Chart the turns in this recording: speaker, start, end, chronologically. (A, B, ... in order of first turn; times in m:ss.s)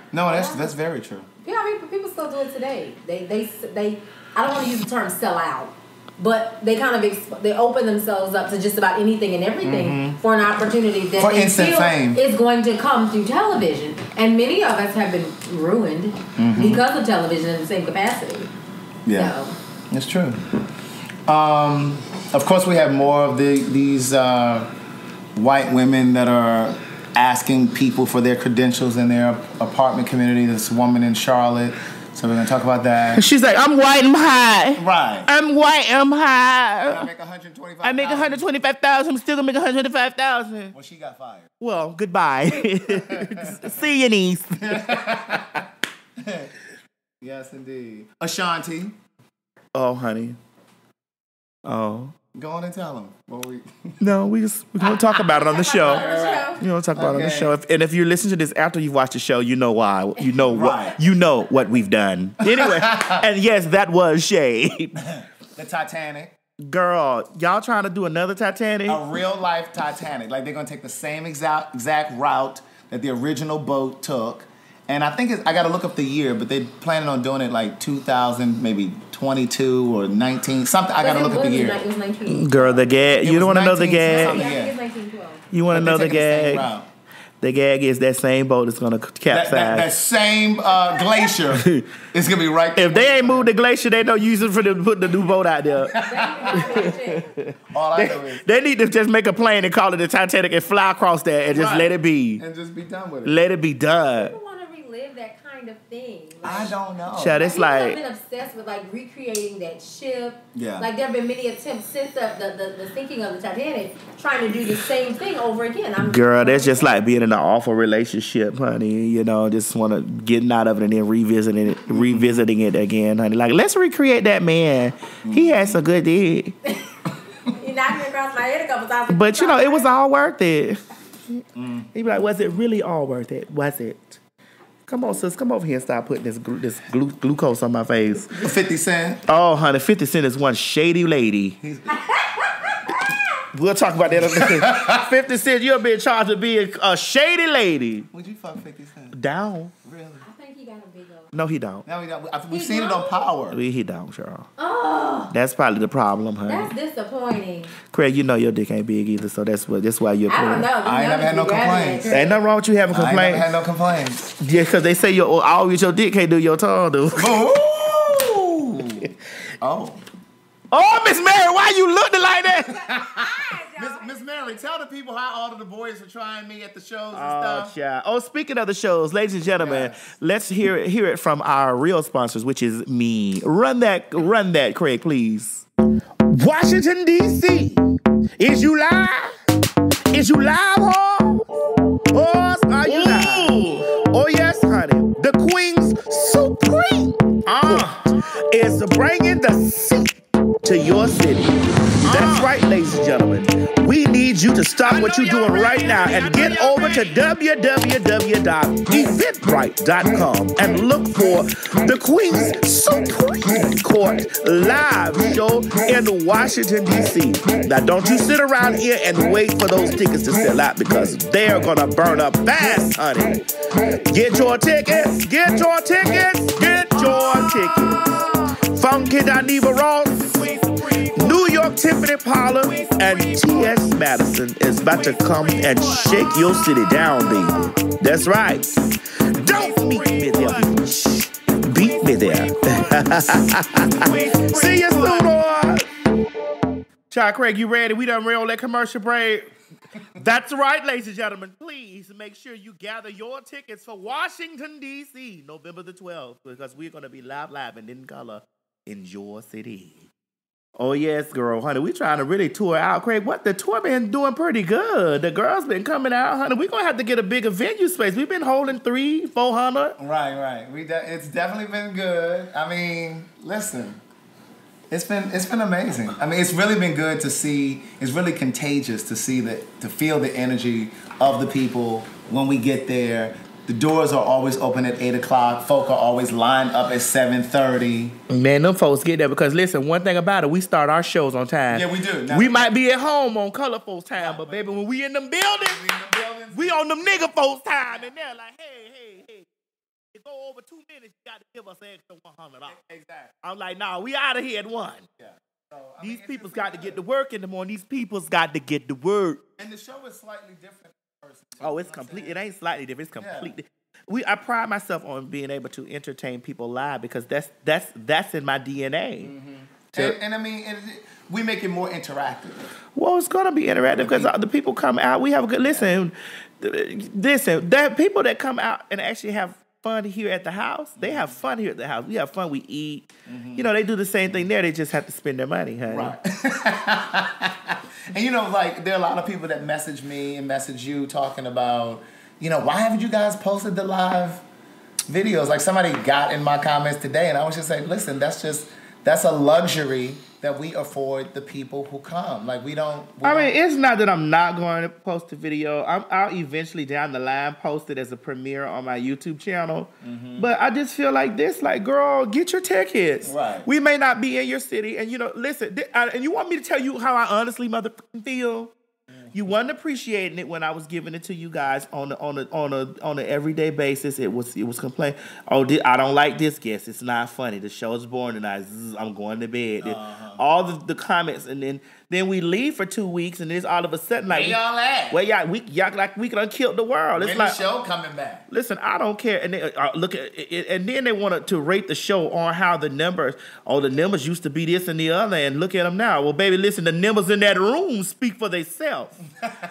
0:00.1-0:01.3 A
0:00.3-0:00.7 B
0:01.4-0:18.5 B
0:09.6-0:10.2 A
0:11.2-0:12.2 A
0:16.4-0:16.8 A
0:19.0-0:19.4 A
0:19.1-0:19.6 B
0:19.9-0:20.4 A
0:21.2-0:24.7 A
0:25.4-0:33.2 A
0:33.1-0:37.0 C
0:34.8-0:35.3 A
0:36.9-0:38.4 A
0:37.8-0:40.7 C
0:40.7-0:41.5 A
0:41.6-0:45.4 C
0:42.9-0:43.7 A
0:44.6-0:45.6 A
0:46.2-0:46.5 A
0:47.2-0:49.0 A
0:49.7-0:50.4 C
0:51.6-0:52.2 C
0:52.3-0:54.0 A
0:54.0-0:56.0 C
0:55.1-0:56.6 B
0:55.7-0:57.5 A
0:56.6-1:05.0 C
1:00.5-1:01.0 A
1:02.4-1:03.2 A
1:05.0-1:06.3 A
1:06.6-1:09.0 C
1:08.9-1:21.8 A
1:21.0-1:22.8 B
1:22.2-1:24.4 C
1:22.9-1:24.8 A
1:24.0-1:25.4 B
1:25.5-1:26.7 C
1:25.7-1:26.9 A
1:27.4-1:29.9 C
1:29.3-1:33.5 A
1:31.5-1:31.9 C
1:32.8-1:36.0 C
1:35.8-1:36.9 A
1:35.9-1:37.2 B
1:36.5-1:42.4 C
1:37.7-1:38.4 A
1:41.5-1:43.4 A
1:43.2-1:44.3 C
1:44.1-1:46.7 B
1:46.4-1:47.5 A
1:47.2-1:48.0 C
1:47.4-1:57.0 B
1:50.6-1:50.9 A
1:56.0-2:06.6 C
2:01.9-2:02.4 A
2:05.2-2:05.8 A
2:07.4-2:09.9 B
2:09.1-2:10.8 C
2:11.4-2:14.2 C
2:11.6-2:11.9 A
2:14.9-2:18.4 C
2:18.3-2:19.2 A
2:19.3-2:21.6 C
2:21.6-2:22.0 A
2:22.1-2:23.2 B
2:23.5-2:28.1 C
2:24.1-2:25.0 A
2:28.1-2:29.2 A
2:29.1-2:29.7 C
2:29.8-2:30.2 A
2:30.2-2:31.3 B
2:31.3-2:31.8 C
2:31.8-2:33.6 A
2:32.5-2:33.3 B
2:33.5-2:34.5 C
2:34.6-2:35.3 B
2:35.3-2:36.7 C
2:36.5-2:37.7 B
2:37.9-2:40.7 C
2:40.3-2:42.2 B
2:40.8-2:42.4 A
2:42.1-2:43.5 C
2:42.9-2:44.2 A
2:44.3-2:47.3 C
2:47.2-2:50.0 A
2:50.7-2:52.9 C
2:52.9-2:54.1 B
2:53.1-2:57.7 A
2:57.1-3:05.7 C
2:59.6-3:00.0 A
3:06.2-3:09.4 C
3:10.1-3:11.5 C
3:12.1-3:43.4 C
3:12.9-3:13.7 A
3:17.5-3:18.0 A
3:22.0-3:22.5 A
3:24.8-3:27.1 A
3:43.9-3:58.8 C
3:59.3-4:05.9 C
4:04.0-4:05.3 A
4:07.1-4:09.5 C
4:10.2-4:20.1 C
4:20.8-4:30.0 C
4:30.0-4:34.0 A
4:34.9-4:48.2 A
4:48.3-4:55.8 C
4:51.7-4:52.7 A
4:54.2-4:54.7 A
4:55.6-4:57.3 A
4:56.5-4:59.5 C
4:57.9-4:58.1 A
5:00.1-5:02.8 C
5:02.7-5:03.3 A
5:03.4-5:05.1 C
5:05.2-5:07.0 A
5:06.0-5:09.4 C
5:09.6-5:12.4 A
5:11.6-5:19.3 C
5:13.2-5:13.5 A
5:19.2-5:22.7 A
5:23.0-5:36.2 C
5:24.0-5:24.3 A
5:25.6-5:25.9 A
5:31.0-5:31.3 A
5:33.2-5:33.7 A
5:35.9-5:44.4 A
5:45.1-5:53.5 A
5:53.2-6:08.7 C
6:00.0-6:00.5 A
6:03.2-6:03.7 A
6:09.3-6:24.6 C
6:19.8-6:20.4 A
6:24.3-6:25.2 A
6:25.1-6:27.6 C
6:27.2-6:28.5 A
6:28.5-6:39.2 C